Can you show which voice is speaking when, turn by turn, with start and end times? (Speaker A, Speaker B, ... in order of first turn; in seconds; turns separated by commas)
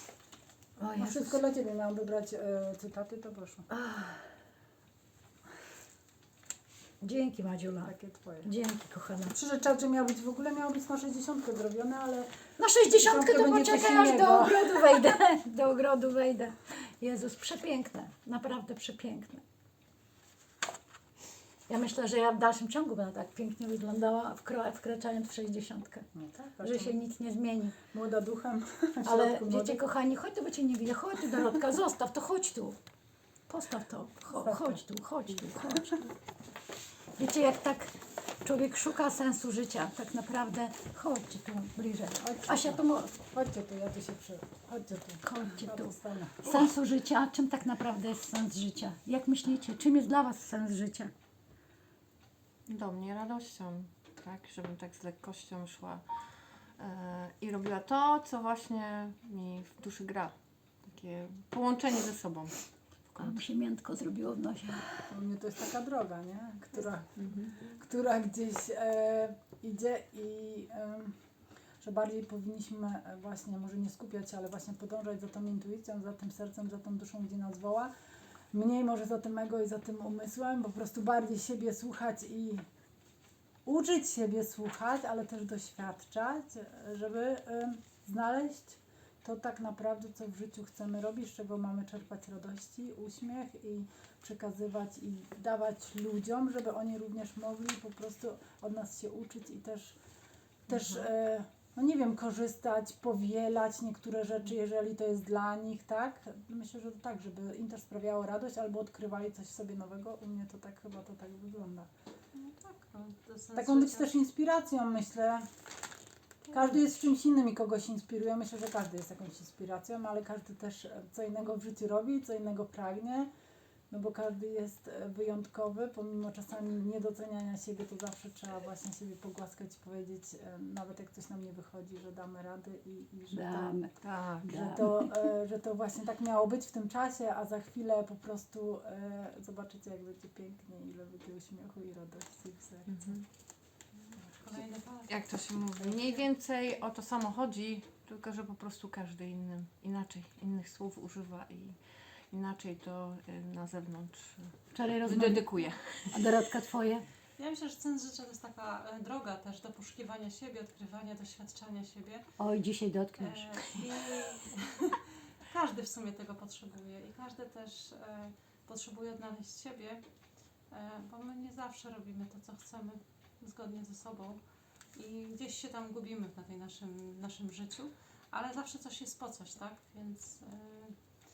Speaker A: 0.8-1.4, Speaker B: 0.9-3.7, Speaker A: 3.7-4.3, Speaker A: 7.0-7.9, Speaker B: 7.8-8.5, Speaker A: 8.4-9.3, Speaker B: 9.3-12.3, Speaker A: 12.6-19.4, Speaker B: 12.9-15.1, Speaker A: 21.7-26.1, Speaker B: 26.1-27.0, Speaker A: 26.6-27.8, Speaker B: 27.9-29.8, Speaker A: 29.0-32.8, Speaker A: 33.5-35.9, Speaker B: 34.3-34.8, Speaker A: 37.2-43.1, Speaker B: 42.2-46.5, Speaker A: 45.2-51.1, Speaker C: 52.7-60.3, Speaker C: 60.9-62.6, Speaker C: 63.1-63.4, Speaker A: 63.2-65.0, Speaker B: 65.1-71.2, Speaker C: 67.2-67.5, Speaker B: 71.8-77.9, Speaker B: 78.5-82.7, Speaker B: 83.6-100.0, Speaker B: 100.7-111.9, Speaker D: 112.3-114.1, Speaker B: 113.5-115.5, Speaker B: 116.5-123.3, Speaker B: 123.9-133.9, Speaker A: 133.3-133.9, Speaker C: 134.0-134.5, Speaker A: 134.4-135.1, Speaker B: 134.4-143.0, Speaker C: 142.9-143.2, Speaker D: 144.1-145.2, Speaker C: 145.1-156.3, Speaker A: 154.7-155.4, Speaker A: 156.1-157.0, Speaker D: 157.4-162.2, Speaker A: 162.4-163.5, Speaker D: 163.2-170.0, Speaker D: 170.7-174.4, Speaker D: 174.9-181.0